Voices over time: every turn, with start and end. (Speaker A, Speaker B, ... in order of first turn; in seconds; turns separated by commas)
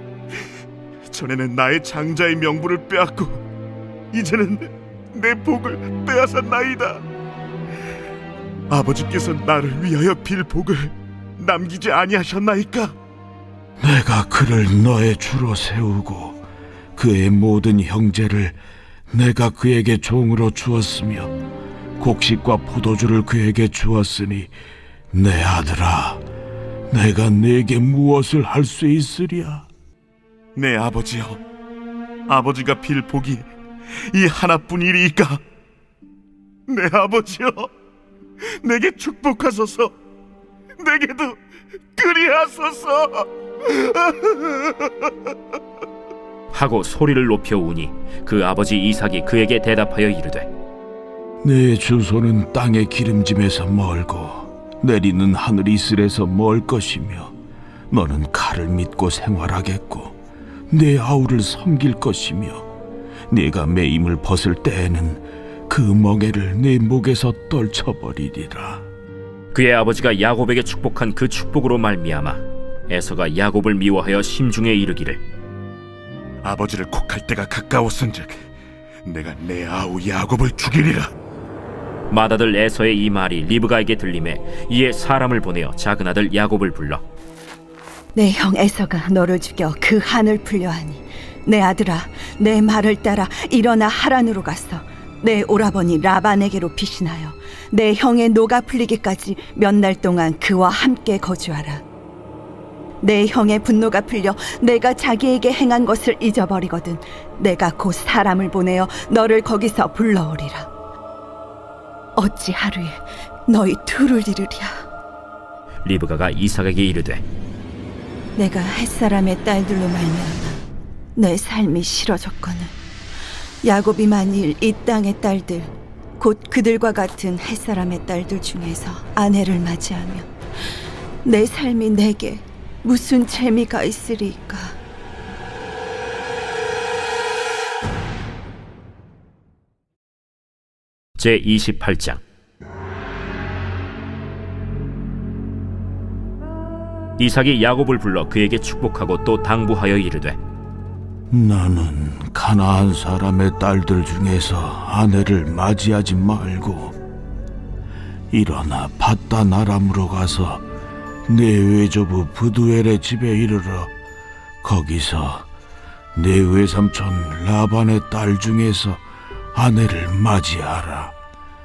Speaker A: 1.1-3.4, Speaker A: 4.1-7.0, Speaker A: 8.7-12.9, Speaker B: 13.8-16.4, Speaker B: 16.9-18.6, Speaker B: 19.1-21.3, Speaker B: 22.0-24.5, Speaker B: 25.1-26.2, Speaker B: 26.9-29.7, Speaker A: 30.6-31.4, Speaker A: 32.3-35.4, Speaker A: 36.7-37.7, Speaker A: 38.6-39.9, Speaker A: 40.8-41.4, Speaker A: 41.9-44.9, Speaker C: 46.5-50.5, Speaker B: 51.4-57.3, Speaker B: 57.9-60.1, Speaker B: 60.7-62.7, Speaker B: 63.3-68.8, Speaker C: 69.5-75.2, Speaker A: 76.4-78.5, Speaker A: 79.0-81.1, Speaker C: 82.1-87.0, Speaker D: 88.1-101.8, Speaker D: 103.0-110.7, Speaker D: 112.2-114.8, Speaker C: 115.8-117.2, Speaker D: 118.4-120.6, Speaker D: 121.2-122.7, Speaker D: 123.6-130.3, Speaker D: 131.2-134.8, Speaker C: 141.2-142.2, Speaker C: 147.2-150.4, Speaker B: 151.3-157.0, Speaker B: 158.3-160.6, Speaker B: 161.3-163.9, Speaker B: 164.6-165.5, Speaker B: 166.1-169.0, Speaker B: 169.5-171.1